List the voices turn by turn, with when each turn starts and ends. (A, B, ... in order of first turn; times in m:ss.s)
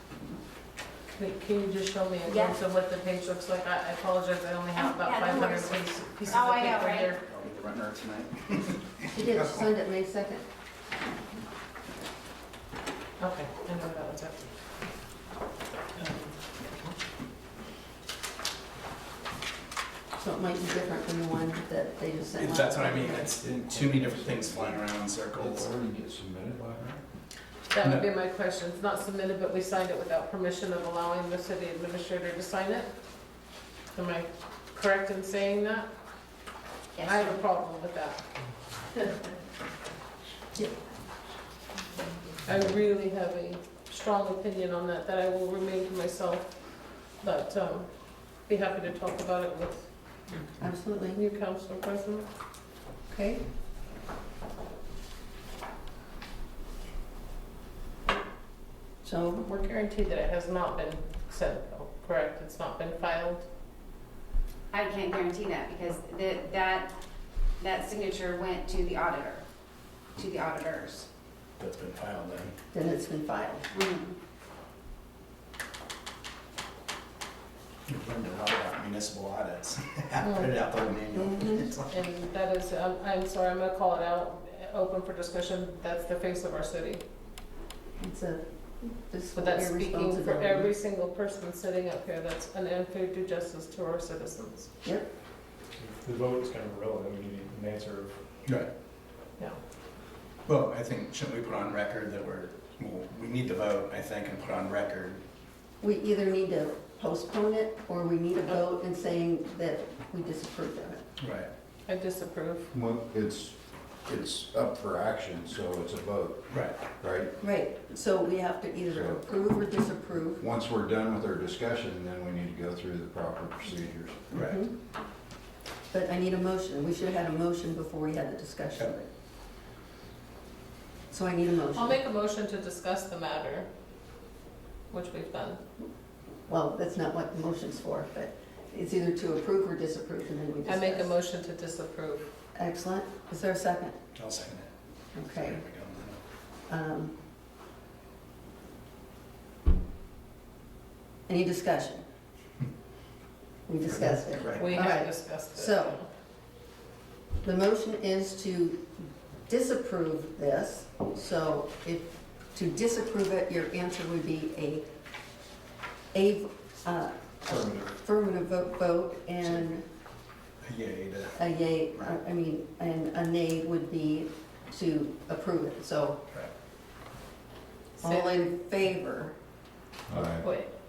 0:01.1-0:07.2 A
0:02.3-0:02.6 B
0:04.8-0:07.2 B
0:06.6-0:09.7 C
0:09.1-0:10.4 D
0:13.2-0:14.5 A
0:16.0-0:16.9 A
0:20.2-0:23.3 D
0:22.3-0:25.7 C
0:23.4-0:27.0 E
0:27.7-0:32.9 A
0:27.8-0:28.1 C
0:33.9-0:35.9 A
0:37.0-0:37.4 B
0:37.0-0:38.2 A
0:42.4-0:46.5 A
0:47.2-0:47.9 A
0:48.5-0:50.3 A
0:50.6-0:51.2 D
0:51.2-0:52.3 A
0:53.1-0:53.4 D
0:59.0-0:59.5 D
0:59.4-1:03.5 A
1:04.7-1:07.0 B
1:07.6-1:09.4 B
1:10.2-1:11.1 B
1:11.6-1:12.5 C
1:12.7-1:13.7 D
1:13.7-1:14.2 B
1:17.9-1:21.9 C
1:20.2-1:20.5 A
1:21.3-1:21.6 D
1:21.9-1:27.0 A
1:28.0-1:30.7 D
1:29.4-1:34.7 A
1:35.8-1:38.2 F
1:40.5-1:45.2 C
1:45.8-1:51.0 D
1:51.2-1:51.5 C
1:51.9-1:52.7 A
1:52.7-1:56.4 E
1:56.5-1:56.8 C
1:57.0-1:57.3 E
1:57.4-2:00.4 D
1:58.9-1:59.2 E
2:00.4-2:04.3 E
2:04.3-2:04.7 D
2:04.3-2:04.6 C
2:05.9-2:09.1 D
2:11.1-2:12.0 D
2:11.7-2:13.7 A
2:14.9-2:15.6 A
2:16.5-2:21.1 D
2:20.6-2:22.3 A
2:22.6-2:24.0 D
2:24.2-2:24.7 C
2:25.1-2:25.6 D
2:25.2-2:26.2 C
2:26.7-2:27.2 D
2:31.3-2:32.0 D
2:33.7-2:36.0 D
2:34.1-2:34.9 C
2:34.6-2:36.1 A
2:37.4-2:38.9 D
2:39.5-2:44.8 D
2:46.1-2:49.8 D
2:50.6-2:52.2 C
2:51.4-2:56.2 D
2:58.0-2:58.5 A
2:58.0-2:59.3 D
3:00.1-3:00.4 E
3:00.4-3:00.7 A